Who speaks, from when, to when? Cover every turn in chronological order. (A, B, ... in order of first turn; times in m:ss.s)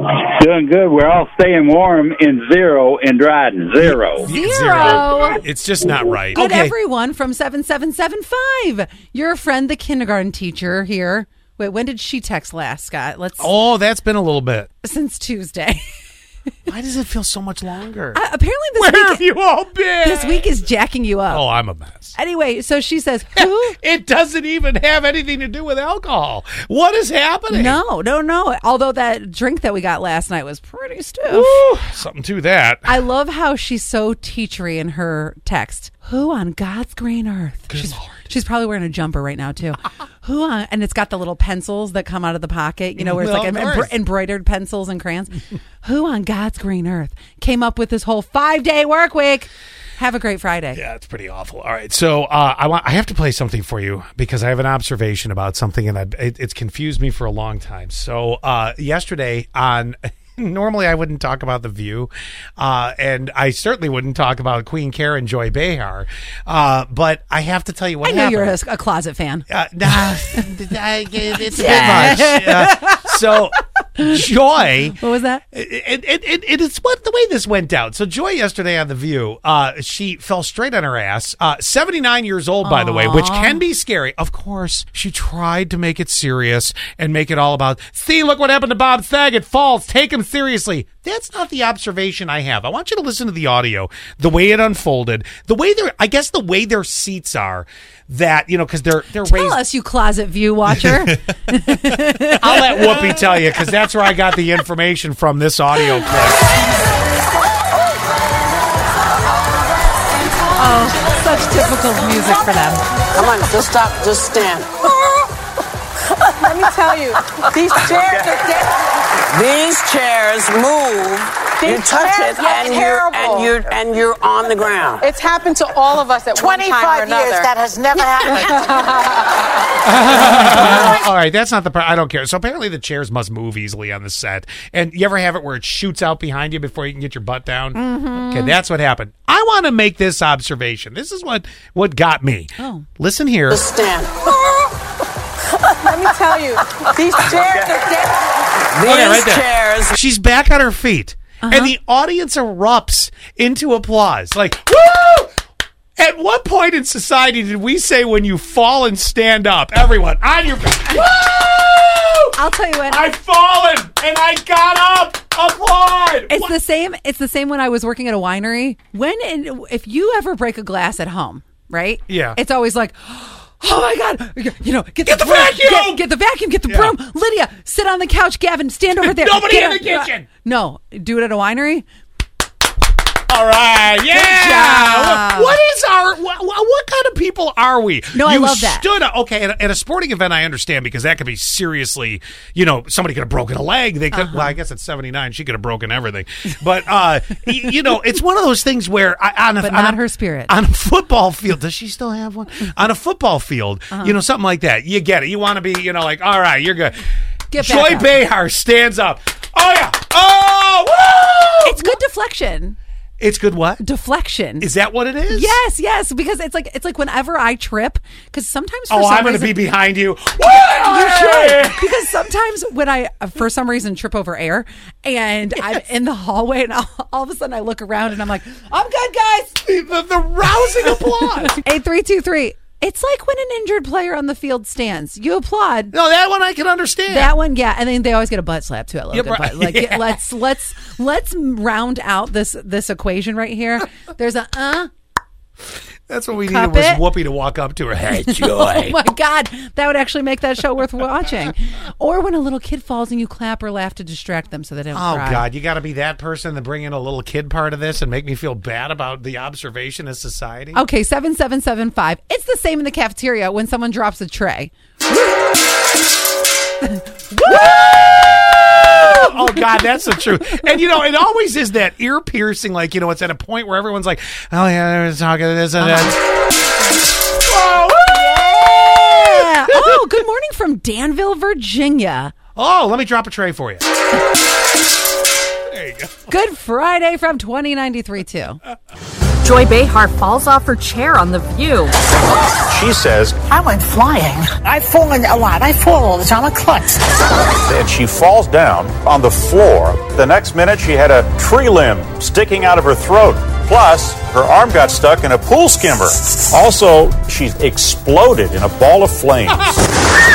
0:00.2-0:04.3 A
0:03.8-0:06.7 B
0:04.2-0:05.4 C
0:06.3-0:13.5 C
0:13.4-0:14.7 B
0:14.8-0:15.8 C
0:16.7-0:18.2 B
0:18.1-0:19.2 C
0:18.8-0:20.4 B
0:20.0-0:21.5 C
0:21.3-0:22.2 B
0:22.2-0:23.8 C
0:23.4-0:27.8 B
0:27.5-0:31.6 C
0:31.3-0:33.0 B
0:32.8-0:50.8 C
0:37.7-0:38.2 B
0:43.0-0:43.9 B
0:50.7-1:08.6 B
1:08.0-1:09.4 C
1:09.5-1:15.0 B
1:11.5-1:13.2 C
1:14.8-1:15.4 C
1:15.5-1:39.6 B
1:22.6-1:23.6 C
1:39.2-1:43.0 C
1:40.7-1:41.1 B
1:42.4-1:46.4 B
1:50.6-1:52.8 C
1:53.1-1:54.9 D
1:56.3-1:58.8 E
1:59.3-2:05.0 D
2:01.6-2:03.6 E
2:05.0-2:09.1 E
2:06.3-2:08.7 F
2:09.8-2:23.6 B
2:17.7-2:18.6 C
2:22.6-2:22.8 C
2:23.5-2:24.2 D
2:25.6-2:28.6 E
2:28.7-2:29.9 D
2:28.8-2:35.3 B
2:31.4-2:31.7 C
2:36.0-2:42.4 B
2:42.4-2:43.0 C
2:42.9-2:46.5 B
2:46.3-3:01.8 C
2:52.1-2:52.4 B
2:55.0-2:56.0 B
2:56.7-2:57.0 B
2:59.0-3:00.3 B
3:03.3-3:27.0 B
3:04.1-3:05.6 C
3:08.1-3:08.8 C
3:14.1-3:14.5 C
3:19.6-3:20.5 C
3:23.9-3:24.2 C
3:27.5-3:28.2 C
3:27.6-3:32.0 B
3:31.6-3:32.8 C
3:33.2-3:33.8 B
3:33.8-3:34.7 C
3:34.6-3:35.6 B
3:35.3-3:39.6 C
3:38.9-3:41.9 B
3:40.8-3:49.6 C
3:49.6-3:51.6 B
3:51.5-3:55.9 C
3:55.9-3:57.3 B
3:57.1-4:04.9 C
3:59.1-4:00.2 B
4:06.1-4:09.0 B
4:06.4-4:07.0 C
4:08.2-4:15.4 C
4:14.9-4:20.8 B
4:20.7-4:25.4 C
4:26.8-4:28.1 C
4:27.4-4:36.2 B
4:35.8-4:36.2 C
4:37.4-4:40.0 B
4:38.1-4:42.3 C
4:42.5-4:43.8 B
4:45.7-4:46.3 B
4:46.3-4:48.6 C
4:49.4-4:51.9 G
4:52.7-4:53.4 H
4:53.4-4:57.0 F
4:57.6-5:09.8 H